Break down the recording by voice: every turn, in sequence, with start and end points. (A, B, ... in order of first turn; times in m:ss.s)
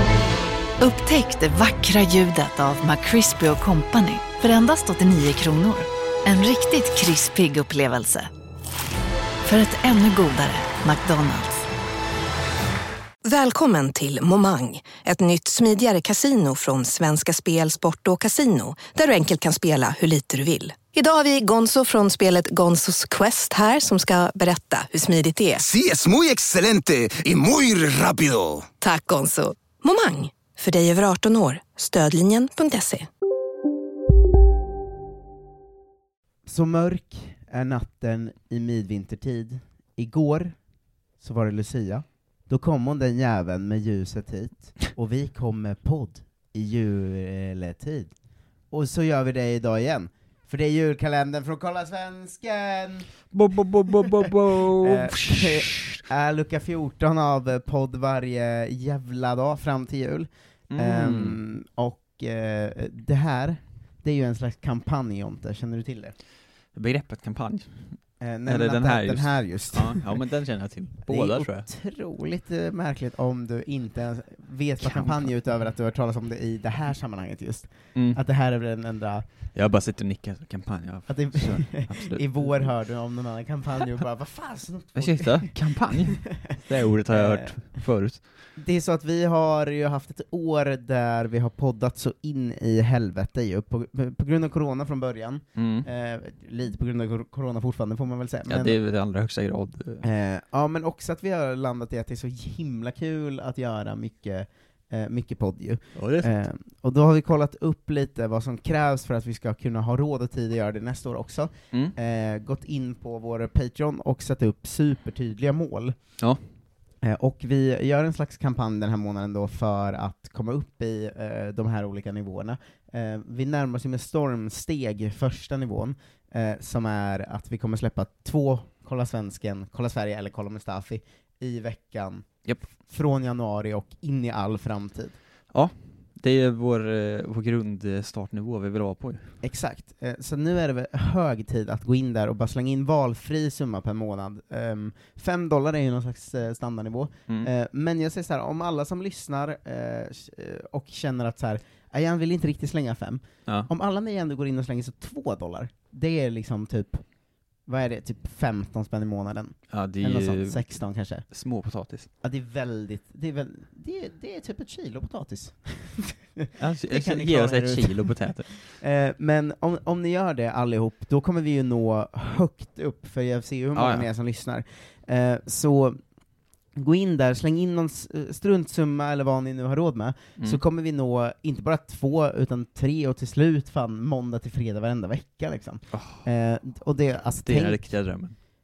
0:00.8-0:08.3 A
0:09.5-0:11.6 A
0:13.2-0:25.7 B
0:25.7-0:28.6 C
0:28.8-0:33.1 B
0:36.4-0:40.6 D
0:41.2-0:48.1 D
0:48.7-0:53.1 D
0:53.3-0:56.0 E
0:54.8-1:06.2 D
1:00.7-1:01.4 E
1:06.7-1:11.7 E
1:08.2-1:10.2 D
1:11.0-1:19.2 D
1:14.8-1:15.3 E
1:17.9-1:18.2 E
1:19.5-1:22.7 E
1:21.1-1:26.6 D
1:25.0-1:28.3 E
1:27.1-1:27.9 D
1:28.6-1:38.8 D
1:35.6-1:35.9 E
1:38.5-1:40.0 E
1:40.0-1:56.0 D
1:45.9-1:46.3 E
1:57.0-2:15.2 D
2:15.5-2:19.3 E
2:19.4-2:37.1 D
2:37.6-2:41.3 D
2:39.7-2:40.7 E
2:41.2-2:42.1 E
2:42.2-2:56.0 D
2:46.6-2:48.5 E
2:53.8-2:54.1 E
2:56.8-3:08.1 D
3:05.9-3:06.2 E
3:07.4-3:08.3 E